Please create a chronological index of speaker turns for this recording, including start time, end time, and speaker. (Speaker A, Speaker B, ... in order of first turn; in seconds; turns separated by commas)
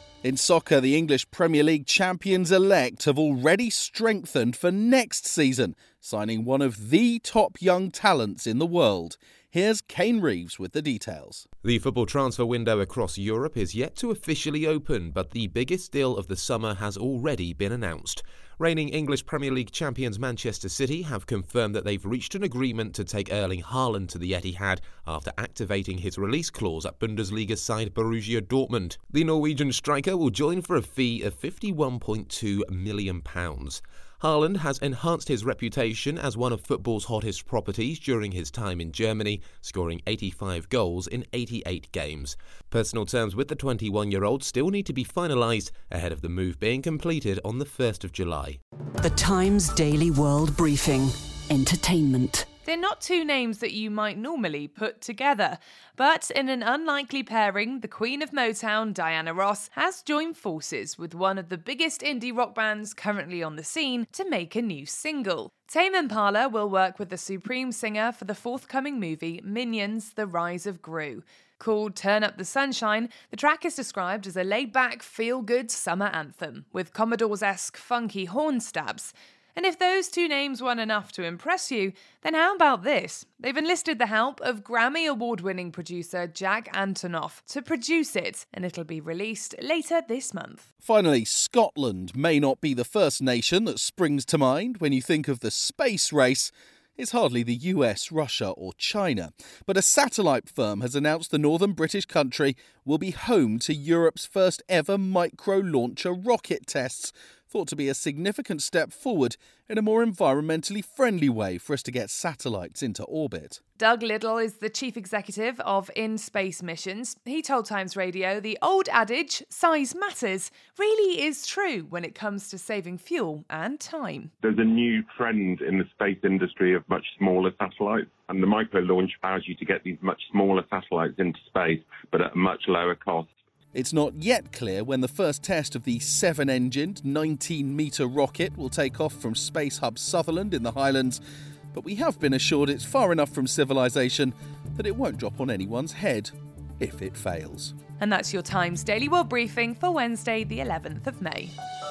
Speaker A: 0.2-11.4, Speaker B: 11.6-48.6, Speaker C: 49.0-52.5, Speaker D: 52.6-90.7, Speaker A: 90.8-113.6, Speaker D: 113.8-124.3, Speaker E: 124.4-133.3, Speaker A: 133.7-141.2, Speaker A: 141.7-147.7, Speaker D: 148.0-151.5